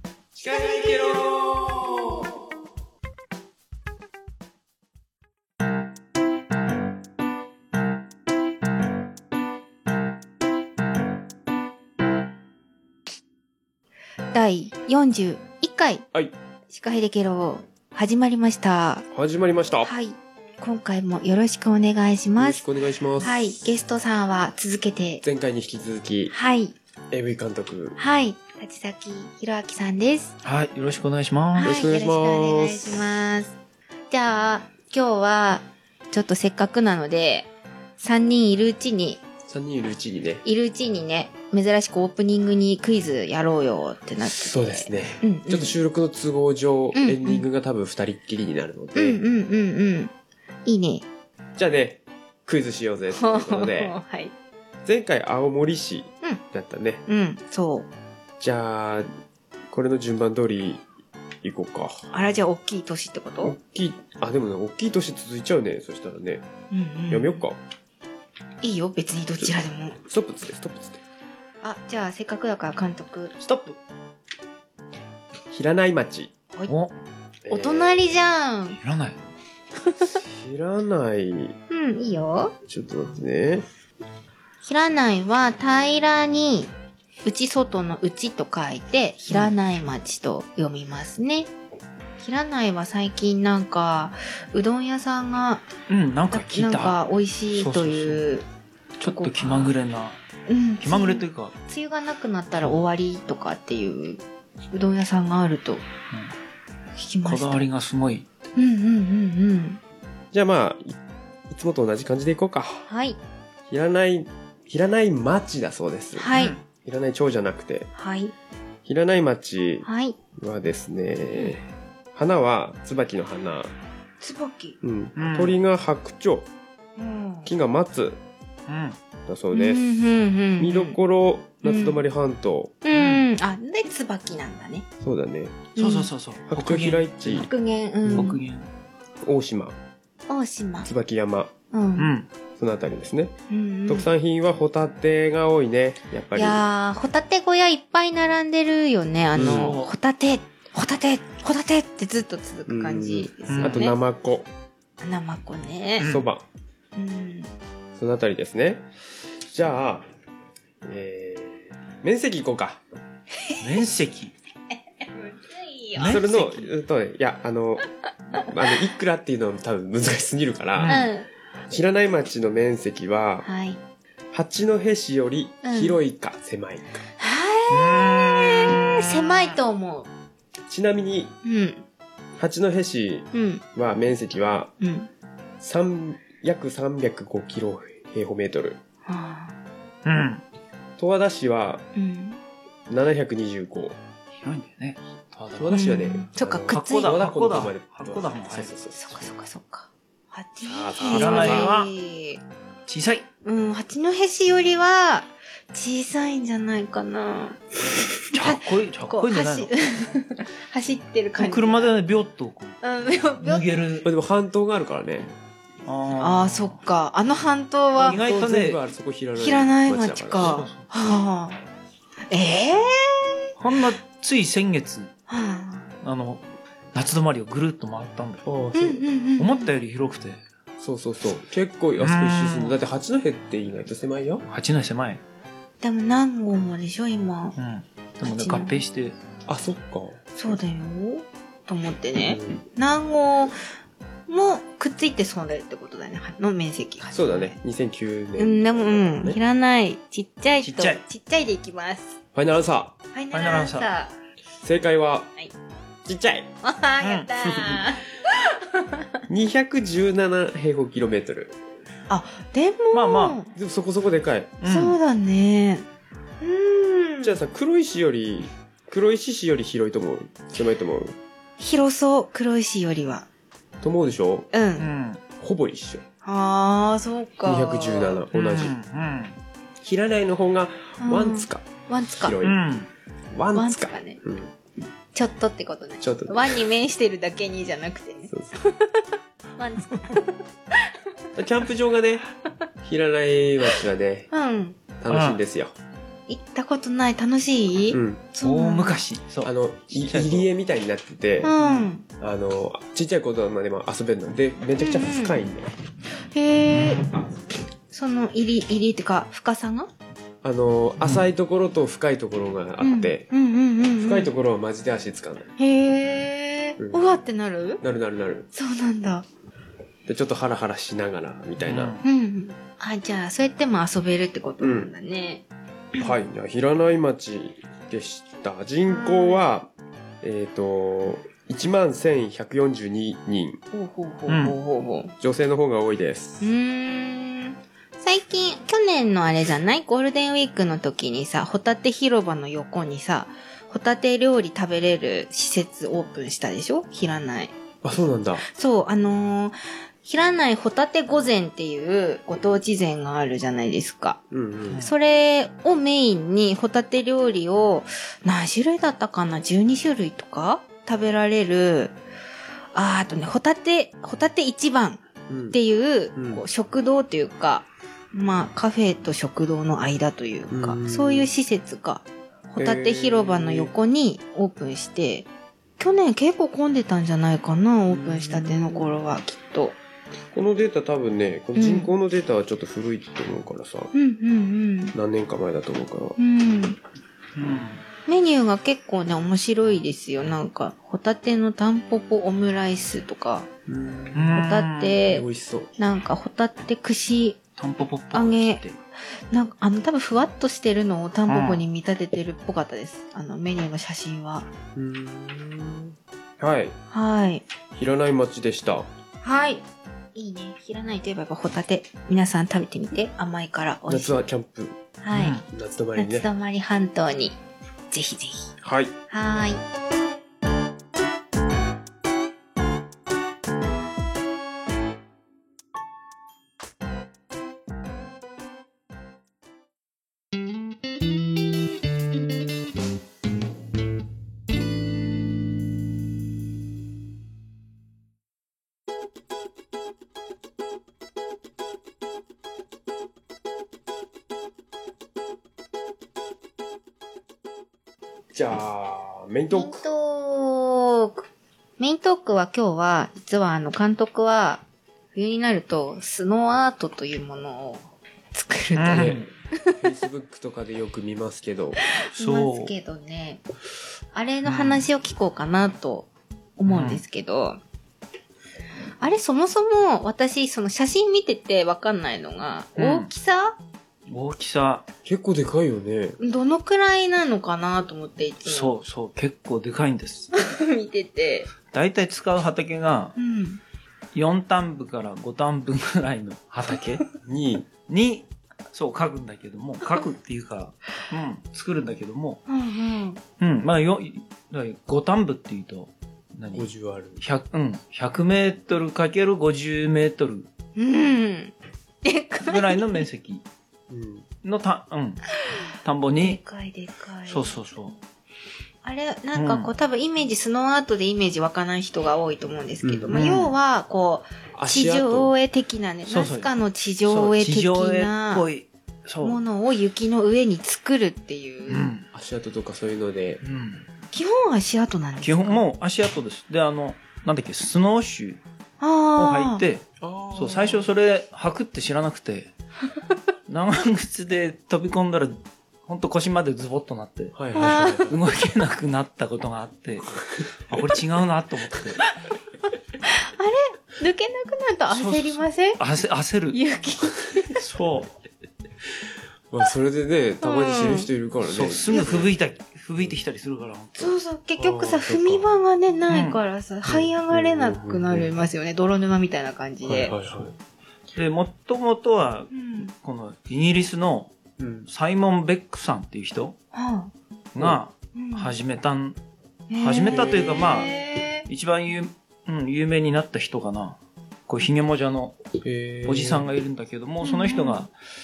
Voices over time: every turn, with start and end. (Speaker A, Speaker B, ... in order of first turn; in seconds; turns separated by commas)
Speaker A: 0.4-2.2, Speaker B: 0.5-2.3, Speaker B: 14.3-16.1, Speaker B: 16.7-19.1, Speaker A: 19.1-19.9, Speaker B: 19.8-22.6, Speaker A: 22.4-23.7, Speaker B: 23.2-25.2, Speaker A: 25.2-26.3, Speaker B: 26.3-26.8, Speaker A: 27.1-28.0, Speaker B: 28.0-30.3, Speaker C: 30.4-31.8, Speaker B: 31.6-33.5, Speaker A: 31.6-33.0, Speaker B: 34.1-39.2, Speaker A: 39.5-40.4, Speaker B: 40.4-45.8, Speaker A: 44.2-49.2, Speaker B: 46.9-47.5, Speaker B: 49.0-50.1, Speaker B: 50.6-51.1, Speaker A: 51.6-54.0, Speaker B: 53.1-54.3, Speaker A: 54.9-57.0, Speaker B: 57.1-57.9, Speaker A: 58.4-59.1, Speaker A: 59.7-60.8, Speaker A: 61.4-62.1, Speaker B: 62.1-63.6, Speaker A: 63.4-66.5, Speaker B: 66.7-67.4, Speaker A: 67.1-67.6, Speaker B: 68.6-70.0, Speaker A: 70.0-71.0, Speaker B: 71.6-73.3, Speaker C: 73.4-73.8, Speaker A: 75.5-76.3, Speaker A: 77.5-78.3, Speaker B: 77.5-78.8, Speaker C: 78.8-79.2, Speaker A: 80.2-81.6, Speaker B: 81.7-82.5, Speaker A: 82.7-83.7, Speaker B: 84.6-86.7, Speaker B: 87.2-91.5, Speaker C: 89.2-89.5, Speaker B: 92.2-95.6, Speaker C: 95.9-97.0, Speaker B: 96.3-98.5, Speaker C: 97.5-98.2, Speaker C: 99.0-100.2, Speaker B: 99.0-99.7, Speaker B: 100.5-105.8, Speaker C: 100.8-101.5, Speaker B: 107.0-107.7, Speaker C: 107.2-108.3, Speaker B: 108.6-109.8, Speaker A: 110.3-111.0, Speaker A: 111.5-112.8, Speaker B: 112.9-113.2, Speaker A: 113.7-117.9, Speaker B: 116.2-116.6, Speaker C: 116.3-116.6, Speaker B: 118.0-118.3, Speaker A: 118.9-123.7, Speaker B: 119.8-120.2, Speaker B: 124.2-124.8, Speaker A: 124.8-126.5, Speaker C: 125.2-125.5, Speaker B: 127.0-127.5, Speaker A: 127.5-128.2, Speaker C: 128.7-129.0, Speaker A: 129.3-129.9, Speaker B: 129.5-131.0, Speaker A: 130.6-132.8, Speaker B: 131.6-132.0, Speaker B: 132.8-134.9, Speaker C: 132.9-133.2, Speaker A: 135.0-135.7, Speaker B: 135.8-136.1, Speaker C: 135.8-137.4, Speaker A: 136.5-137.5, Speaker B: 137.3-138.4, Speaker A: 138.1-138.4, Speaker C: 138.1-138.7, Speaker A: 139.2-139.8, Speaker B: 140.3-140.9, Speaker A: 140.8-141.5, Speaker B: 141.7-142.1, Speaker C: 142.0-142.3, Speaker A: 142.6-143.3, Speaker B: 143.5-144.1, Speaker A: 143.9-146.6, Speaker B: 146.3-154.0, Speaker A: 149.3-149.8, Speaker C: 149.4-149.9, Speaker A: 152.7-154.5, Speaker C: 153.5-153.8, Speaker B: 155.0-156.1, Speaker C: 156.0-156.3, Speaker A: 156.0-156.4, Speaker B: 157.0-157.5, Speaker A: 158.0-158.9, Speaker A: 159.5-160.1, Speaker A: 160.8-162.8, Speaker C: 163.6-164.3, Speaker B: 164.7-166.2, Speaker C: 166.0-166.7, Speaker A: 166.0-167.9, Speaker A: 168.4-171.0, Speaker C: 170.8-171.1, Speaker B: 170.8-171.3, Speaker A: 171.7-173.5, Speaker B: 173.4-173.8, Speaker A: 174.3-177.0, Speaker B: 175.6-176.0, Speaker B: 177.2-180.1, Speaker C: 177.7-179.3, Speaker A: 180.7-181.3, Speaker B: 181.4-181.8, Speaker A: 182.4-184.7, Speaker B: 183.3-183.6, Speaker B: 184.8-185.1, Speaker A: 185.6-188.8, Speaker B: 189.1-189.6, Speaker C: 190.1-190.4, Speaker A: 191.0-191.8, Speaker B: 192.0-192.4, Speaker A: 192.9-194.0, Speaker C: 194.4-195.7, Speaker A: 195.6-199.2, Speaker B: 195.7-197.2, Speaker C: 196.7-198.8, Speaker B: 198.9-202.4, Speaker A: 200.6-201.8, Speaker C: 201.1-201.9, Speaker C: 202.9-203.3, Speaker B: 203.4-207.6, Speaker C: 208.3-209.7, Speaker B: 208.4-211.9, Speaker C: 211.4-212.8, Speaker B: 212.8-213.7, Speaker C: 213.3-214.1, Speaker A: 214.0-215.3, Speaker C: 215.9-216.8, Speaker B: 216.2-218.2, Speaker C: 218.0-218.8, Speaker A: 218.0-220.7, Speaker B: 219.4-221.6, Speaker C: 220.4-220.9, Speaker B: 222.3-223.5, Speaker C: 223.6-225.1, Speaker B: 225.3-225.9, Speaker C: 226.0-228.4, Speaker A: 228.4-229.1, Speaker B: 228.7-229.7, Speaker C: 229.4-230.4, Speaker A: 230.8-234.4, Speaker C: 232.0-232.8, Speaker C: 234.5-235.2, Speaker B: 235.8-237.6, Speaker C: 237.6-239.2, Speaker B: 238.2-238.7, Speaker A: 239.5-240.6, Speaker B: 240.3-243.7, Speaker A: 242.3-242.6, Speaker B: 244.3-247.6, Speaker A: 247.1-249.4, Speaker B: 248.4-252.2, Speaker C: 250.6-251.0, Speaker A: 252.3-252.9, Speaker B: 253.1-254.2, Speaker C: 253.3-253.9, Speaker A: 254.6-255.3, Speaker A: 256.1-256.5, Speaker B: 256.6-259.1, Speaker C: 257.0-257.8, Speaker A: 259.3-261.6, Speaker B: 262.1-263.5, Speaker C: 262.9-263.5, Speaker A: 263.6-264.6, Speaker C: 264.6-265.0, Speaker B: 264.6-265.9, Speaker B: 266.4-267.4, Speaker A: 267.2-271.2, Speaker B: 271.6-273.3, Speaker A: 273.8-274.5, Speaker B: 274.5-274.9, Speaker C: 274.8-275.2, Speaker A: 275.4-276.0, Speaker B: 276.2-278.2, Speaker A: 277.4-278.8, Speaker C: 278.3-279.4, Speaker A: 279.8-281.7, Speaker B: 281.0-282.4, Speaker A: 282.2-282.6, Speaker C: 282.4-282.9, Speaker A: 283.3-284.5, Speaker B: 283.6-284.2, Speaker B: 285.1-289.0, Speaker A: 286.0-286.7, Speaker A: 288.3-288.5, Speaker B: 289.6-291.0, Speaker A: 291.4-292.2, Speaker A: 292.8-294.3, Speaker B: 294.3-294.8, Speaker A: 295.0-295.7, Speaker C: 295.1-295.4, Speaker B: 296.3-299.0, Speaker A: 297.9-298.2, Speaker C: 298.4-300.5, Speaker A: 299.4-301.5, Speaker B: 301.4-302.1, Speaker C: 301.6-301.9, Speaker A: 302.2-305.7, Speaker B: 304.8-305.5, Speaker B: 306.3-307.1, Speaker B: 307.9-309.9, Speaker A: 310.4-313.3, Speaker B: 312.8-314.3, Speaker A: 314.0-315.5, Speaker B: 315.6-317.8, Speaker A: 316.8-317.1, Speaker A: 317.8-318.5, Speaker B: 318.5-319.2, Speaker A: 320.1-321.9, Speaker C: 321.6-322.0, Speaker B: 322.0-325.4, Speaker A: 324.6-324.9, Speaker A: 326.0-333.6, Speaker B: 328.9-329.4, Speaker B: 333.7-335.1, Speaker C: 334.3-334.6, Speaker A: 335.2-336.5, Speaker B: 336.4-347.5, Speaker A: 347.8-348.4, Speaker B: 348.4-354.2, Speaker A: 354.3-354.8, Speaker B: 354.8-361.9, Speaker B: 362.7-365.0, Speaker A: 365.3-365.6, Speaker B: 365.5-375.3, Speaker A: 366.2-366.4, Speaker A: 370.5-371.3, Speaker A: 372.6-373.7, Speaker B: 375.8-379.8, Speaker A: 377.9-378.9, Speaker A: 380.3-383.9, Speaker B: 381.6-381.9, Speaker B: 383.9-384.9, Speaker A: 384.9-386.2, Speaker B: 386.2-386.8, Speaker C: 387.4-387.8, Speaker B: 388.1-393.5, Speaker A: 393.7-394.4, Speaker C: 394.1-395.0, Speaker B: 394.4-395.2, Speaker A: 395.1-395.7, Speaker B: 395.8-397.4, Speaker C: 397.6-398.8, Speaker B: 398.1-398.6, Speaker B: 399.3-404.5, Speaker C: 401.3-401.6, Speaker A: 404.8-406.8, Speaker B: 406.9-407.4, Speaker A: 407.8-408.9, Speaker B: 409.2-409.6, Speaker B: 410.1-414.3, Speaker A: 413.9-414.8, Speaker B: 415.0-415.4, Speaker C: 415.1-415.4, Speaker A: 415.4-416.3, Speaker B: 416.0-417.4, Speaker B: 417.9-418.6, Speaker A: 418.6-418.9, Speaker B: 419.1-419.6, Speaker A: 448.3-449.9, Speaker B: 449.5-451.3, Speaker B: 451.8-454.6, Speaker B: 455.1-459.8, Speaker C: 458.8-459.3, Speaker A: 458.9-459.3, Speaker A: 459.8-461.8, Speaker B: 461.9-463.4, Speaker C: 462.1-462.7, Speaker B: 464.1-467.6, Speaker C: 464.4-464.9, Speaker C: 466.7-467.0, Speaker B: 469.0-473.6, Speaker C: 472.8-473.1, Speaker C: 474.1-474.8, Speaker A: 475.1-476.2, Speaker B: 476.2-478.8, Speaker C: 478.4-480.3, Speaker B: 480.3-481.5, Speaker C: 481.7-483.2, Speaker B: 483.2-483.6, Speaker C: 484.1-487.0, Speaker A: 487.1-487.7, Speaker C: 487.9-492.4, Speaker B: 492.5-493.2, Speaker C: 493.4-496.7, Speaker A: 496.5-497.2, Speaker C: 497.2-500.5, Speaker B: 500.8-503.0, Speaker C: 502.4-503.4, Speaker A: 503.9-504.3, Speaker C: 504.4-505.2, Speaker C: 505.8-506.4, Speaker B: 506.2-507.6, Speaker C: 507.3-507.9, Speaker B: 508.8-518.5, Speaker C: 509.4-509.7, Speaker A: 512.8-513.1, Speaker C: 513.1-513.5, Speaker A: 514.5-515.3, Speaker C: 516.1-516.5, Speaker C: 517.1-519.4, Speaker B: 519.2-521.9, Speaker C: 521.7-522.1, Speaker A: 522.1-523.4, Speaker C: 523.4-523.9, Speaker B: 524.1-525.6, Speaker C: 525.2-528.4, Speaker B: 528.8-529.6, Speaker C: 529.2-532.5, Speaker A: 530.0-530.9, Speaker C: 533.5-537.4, Speaker A: 537.4-538.2, Speaker B: 537.5-538.1, Speaker C: 538.1-542.0, Speaker B: 543.0-545.8, Speaker C: 544.9-546.6, Speaker B: 546.5-547.6, Speaker C: 547.6-548.1, Speaker A: 549.5-552.3, Speaker B: 550.4-551.1, Speaker C: 551.4-554.2, Speaker B: 551.9-552.2, Speaker B: 554.0-560.2, Speaker A: 554.6-555.5, Speaker C: 556.1-556.4, Speaker A: 556.9-558.3, Speaker A: 559.9-560.5, Speaker C: 561.1-564.3, Speaker B: 562.5-562.9, Speaker A: 564.6-564.9, Speaker C: 564.9-566.6, Speaker B: 566.7-567.1, Speaker C: 567.5-569.2, Speaker B: 568.2-568.5, Speaker B: 569.7-571.5, Speaker C: 569.8-571.0, Speaker A: 570.1-570.8, Speaker C: 571.5-575.4, Speaker A: 575.6-576.5, Speaker C: 576.0-577.9, Speaker B: 577.2-577.8